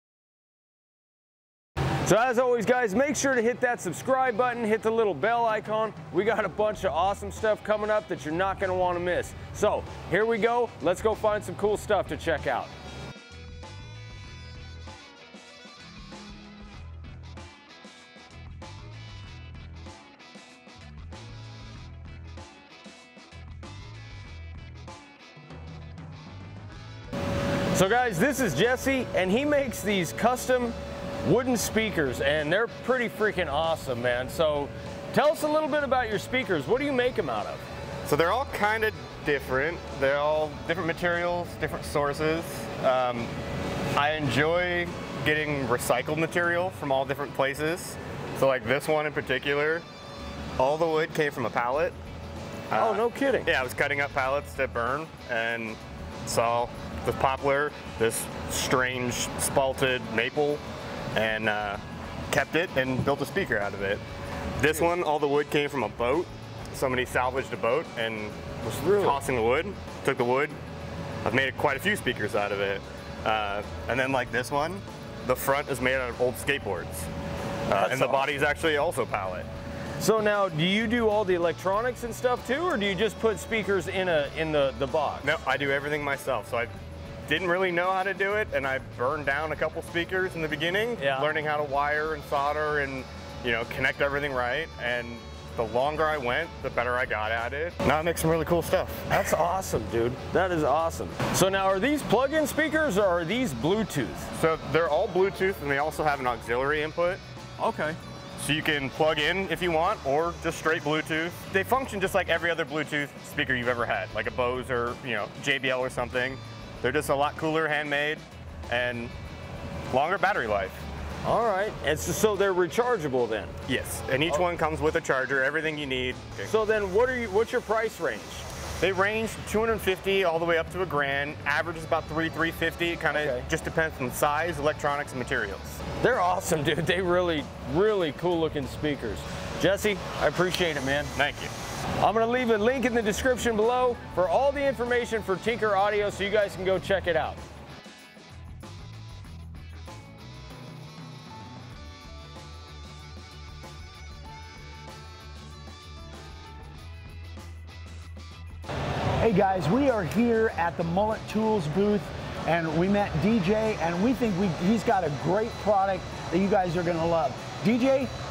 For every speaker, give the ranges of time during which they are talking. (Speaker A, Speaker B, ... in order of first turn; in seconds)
Speaker A: 2.0-12.7, 27.7-37.6, 52.8-53.5, 68.6-69.2, 77.7-78.3, 80.0-85.3, 91.0-91.3, 99.1-104.3, 107.6-108.0, 121.2-123.5, 126.5-128.5, 133.1-133.5, 136.0-141.1, 142.0-147.4
Speaker B: 38.0-43.3, 44.0-49.9, 50.6-52.0, 52.7-60.6, 61.1-64.0, 64.6-68.4, 68.9-70.6, 71.2-77.1, 77.7-79.5, 85.2-86.7, 87.3-99.3, 104.3-107.2, 108.4-119.1, 119.9-120.8, 123.7-126.5, 128.8-135.8, 141.2-141.5
Speaker C: 159.2-168.1